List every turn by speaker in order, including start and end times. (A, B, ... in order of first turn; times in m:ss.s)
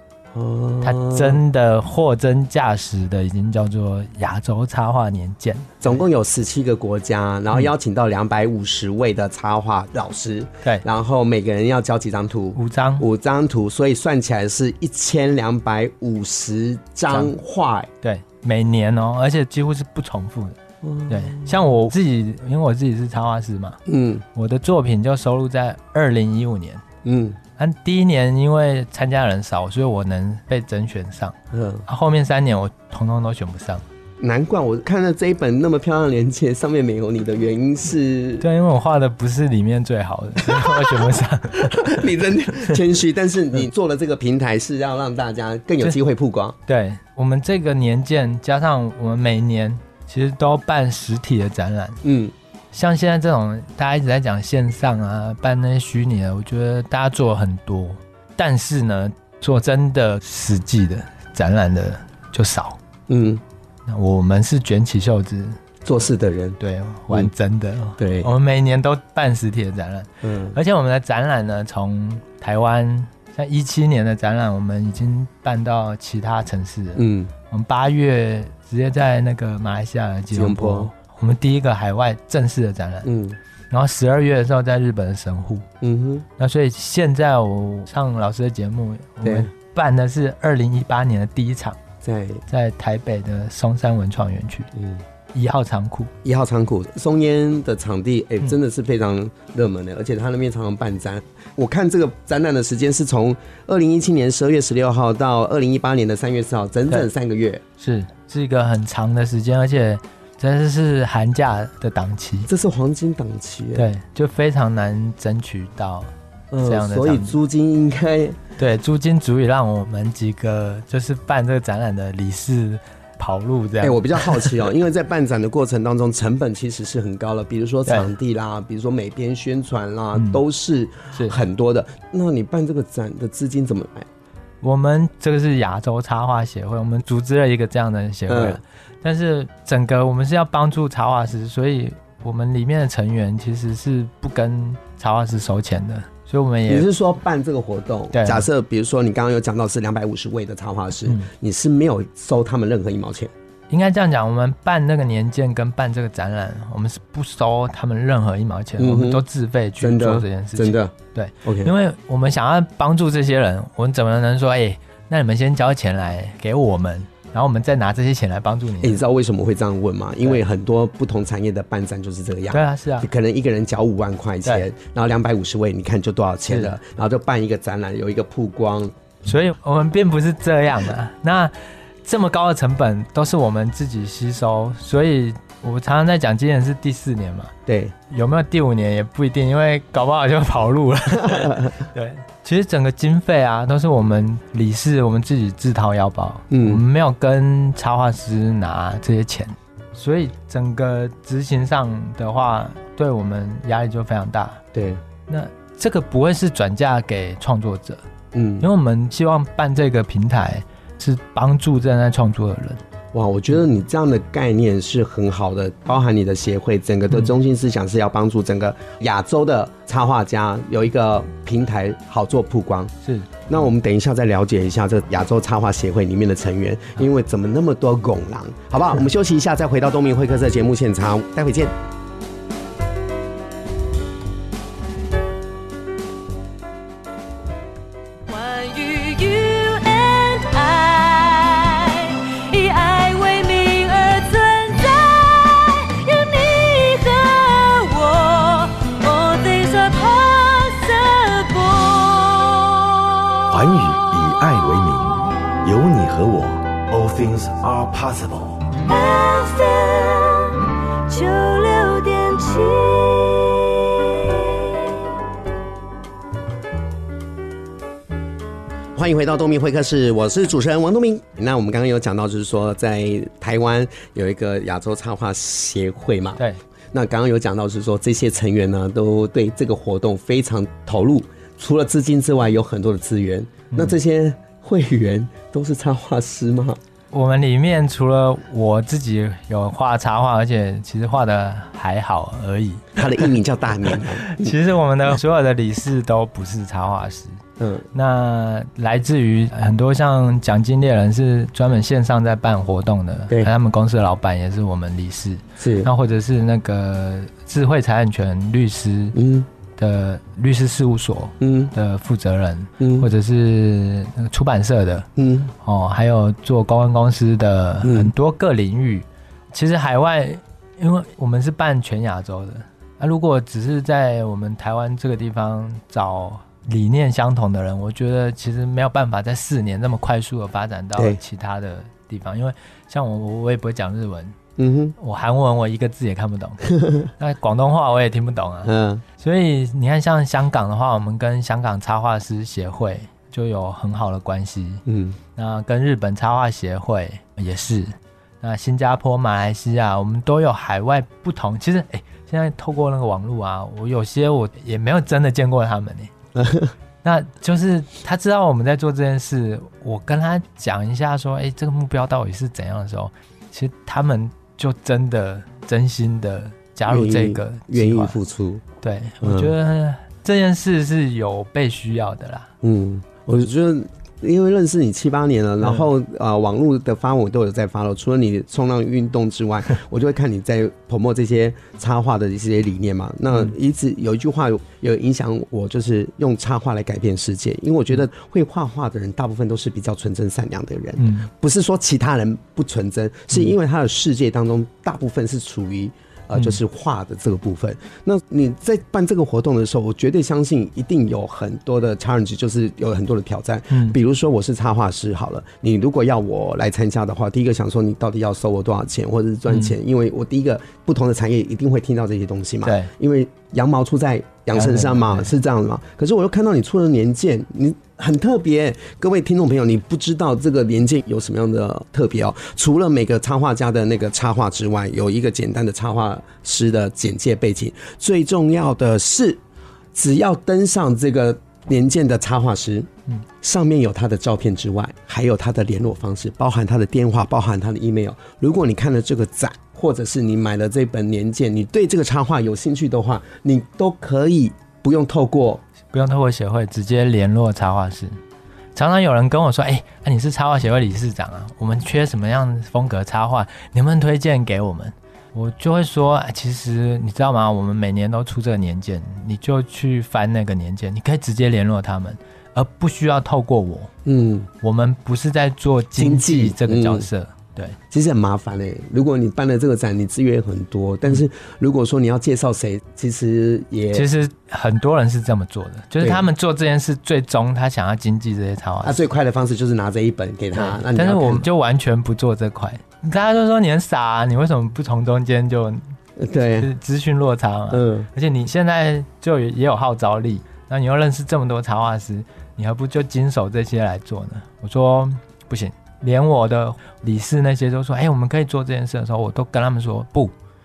0:00.3-0:01.4 A
0:00.8-0:06.0 B
0:05.8-0:17.9 A
0:12.6-0:13.0 B
0:18.0-0:23.8 B
0:20.8-0:21.6 A
0:23.9-0:24.2 A
0:24.4-0:26.8 B
0:27.0-0:27.4 A
0:27.6-0:33.8 B
0:31.5-0:31.8 A
0:34.2-0:38.4 A
0:38.4-0:42.8 B
0:40.4-0:46.6 A
0:46.7-0:52.0 B
0:52.0-0:52.3 A
0:52.7-1:02.8 B
1:03.1-1:03.4 A
1:03.9-1:05.6 B
1:05.8-1:06.6 A
1:06.6-1:23.1 B
1:08.0-1:08.3 A
1:10.2-1:10.6 A
1:17.0-1:17.3 A
1:20.3-1:20.9 A
1:23.0-1:23.4 A
1:23.7-1:25.7 B
1:25.8-1:26.3 A
1:26.4-1:31.8 B
1:29.2-1:29.5 A
1:32.0-1:32.4 A
1:32.5-1:34.7 B
1:34.8-1:35.0 A
1:35.3-1:36.1 B
1:36.2-1:47.6 A
1:47.8-1:52.5 B
1:52.5-1:53.9 A
1:53.8-1:56.1 B
1:56.5-1:58.4 A
1:56.6-1:57.4 B
1:58.6-2:04.6 B
2:03.8-2:14.1 A
2:10.2-2:10.4 B
2:11.1-2:11.4 B
2:14.6-2:26.9 B
2:18.3-2:18.6 A
2:26.7-2:33.3 A
2:28.1-2:28.5 B
2:33.7-2:49.0 B
2:38.8-2:39.2 A
2:39.8-2:41.7 A
2:48.8-2:59.0 A
2:52.5-2:53.1 B
2:56.5-2:56.8 B
2:59.3-3:07.5 B
3:07.7-3:07.9 A
3:08.1-3:24.6 B
3:11.2-3:11.8 A
3:16.5-3:16.8 A
3:24.7-3:25.0 A
3:25.3-3:28.0 B
3:28.3-3:28.7 A
3:28.6-3:32.8 B
3:33.1-3:42.9 A
3:43.5-3:51.7 A
3:58.3-4:12.7 C
4:13.5-4:18.6 D
4:18.9-4:24.8 C
4:29.0-4:36.4 A
4:36.9-4:46.8 A
4:47.1-4:53.3 B
4:53.0-4:54.6 A
4:53.8-4:57.4 B
4:57.6-4:57.9 A
4:57.9-5:09.2 B
5:05.6-5:05.9 A
5:09.2-5:09.5 A
5:09.8-5:15.1 B
5:11.4-5:11.7 A
5:12.8-5:13.1 A
5:15.2-5:15.5 A
5:15.6-5:34.4 B
5:17.8-5:18.1 A
5:34.6-5:35.0 A
5:35.0-5:44.8 B
5:36.8-5:37.1 A
5:38.6-5:39.0 A
5:44.9-5:45.2 A
5:45.4-5:56.1 B
5:56.4-5:56.7 A
5:57.0-6:08.2 B
6:06.9-6:08.6 A
6:08.8-6:12.5 B
6:09.2-6:09.5 A
6:12.6-7:09.4 A
6:31.0-6:31.3 B
6:43.7-6:44.0 B
6:49.5-6:49.7 B
6:52.6-6:52.9 B
6:54.5-6:55.3 B
7:09.9-7:12.9 A
7:13.4-7:25.6 A
7:25.9-7:28.2 B
7:28.8-7:43.9 B
7:44.0-7:44.5 A
7:44.6-7:47.8 B
7:46.0-7:47.1 A
7:47.9-7:54.1 A
7:53.9-7:59.1 B
7:56.0-7:56.3 A
7:58.8-8:01.5 A
8:00.5-8:05.9 B
8:06.2-8:06.7 A
8:06.6-8:20.3 B
8:07.7-8:08.1 A